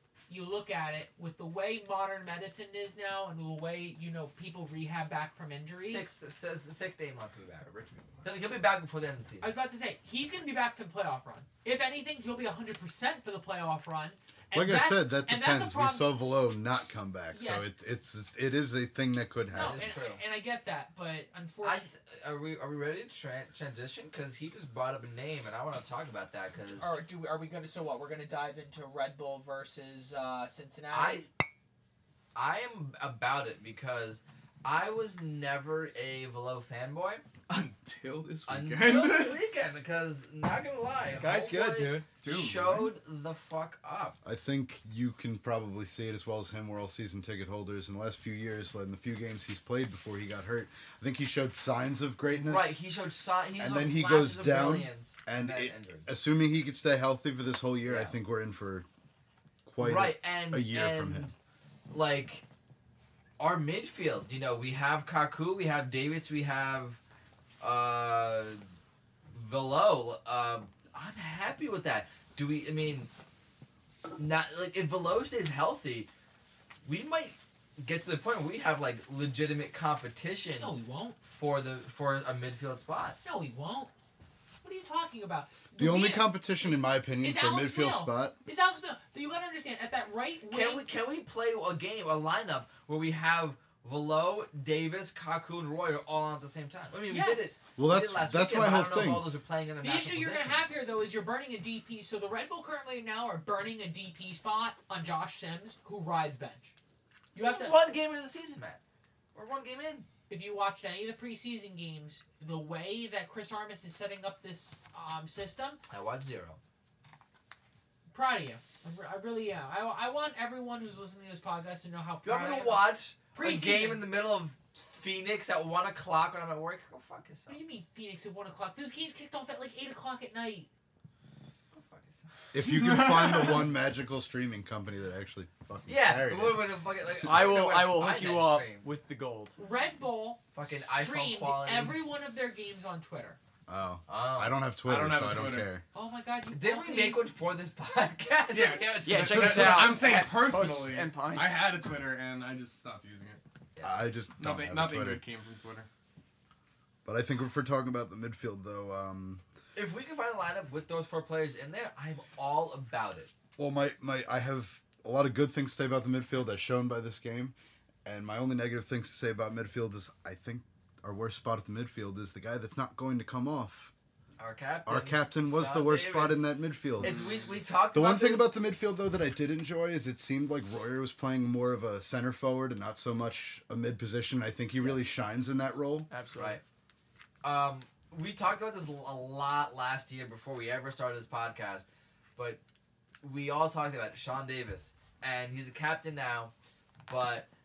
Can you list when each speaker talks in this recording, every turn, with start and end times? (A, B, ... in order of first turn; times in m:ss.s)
0:00.3-0:06.1 A
0:05.8-0:09.5 B
0:09.4-0:16.2 A
0:14.5-0:19.9 C
0:17.3-0:17.7 A
0:19.5-0:21.9 A
0:19.6-0:20.2 B
0:21.6-0:26.9 B
0:26.8-0:31.2 A
0:30.9-0:31.3 B
0:32.3-0:37.2 B
0:37.5-0:39.4 D
0:38.5-0:44.2 B
0:41.2-0:42.1 E
0:42.2-0:42.9 D
0:44.2-0:52.8 C
0:52.3-0:56.1 B
0:53.6-0:58.9 C
0:57.9-0:58.2 B
0:59.7-1:01.3 C
0:59.8-1:01.4 B
1:01.9-1:02.4 B
1:03.4-1:07.0 B
1:07.6-1:08.6 B
1:09.3-1:13.1 B
1:14.2-1:16.1 B
1:16.8-1:23.2 B
1:20.6-1:21.2 A
1:23.2-1:23.9 A
1:24.6-1:30.8 A
1:25.8-1:28.4 C
1:30.5-1:40.7 B
1:37.1-1:37.6 A
1:37.8-1:39.3 C
1:39.8-1:46.7 A
1:47.3-1:47.8 A
1:47.4-1:48.8 B
1:49.3-1:50.1 B
1:50.3-1:55.8 A
1:55.9-1:56.6 B
1:58.1-2:04.0 A
2:02.2-2:07.6 B
2:07.5-2:10.7 A
2:11.7-2:12.3 B
2:12.5-2:16.7 C
2:12.6-2:13.6 D
2:15.9-2:18.9 B
2:17.2-2:19.6 E
2:19.6-2:23.4 A
2:20.5-2:22.0 B
2:23.7-2:25.8 C
2:24.1-2:24.6 B
2:24.8-2:25.7 D
2:25.9-2:27.2 A
2:26.5-2:30.0 B
2:28.5-2:33.4 D
2:29.0-2:31.7 E
2:33.8-2:35.2 C
2:34.4-2:35.9 D
2:37.0-2:39.4 C
2:39.8-2:43.3 B
2:43.6-2:53.9 C
2:54.4-2:56.5 B
2:54.9-2:57.2 C
2:57.0-2:58.5 B
2:57.0-2:57.5 D
2:57.9-3:06.1 C
3:04.8-3:05.6 B
3:06.1-3:06.6 E
3:06.4-3:06.6 B
3:07.4-3:12.6 B
3:13.2-3:16.5 B
3:17.1-3:17.5 B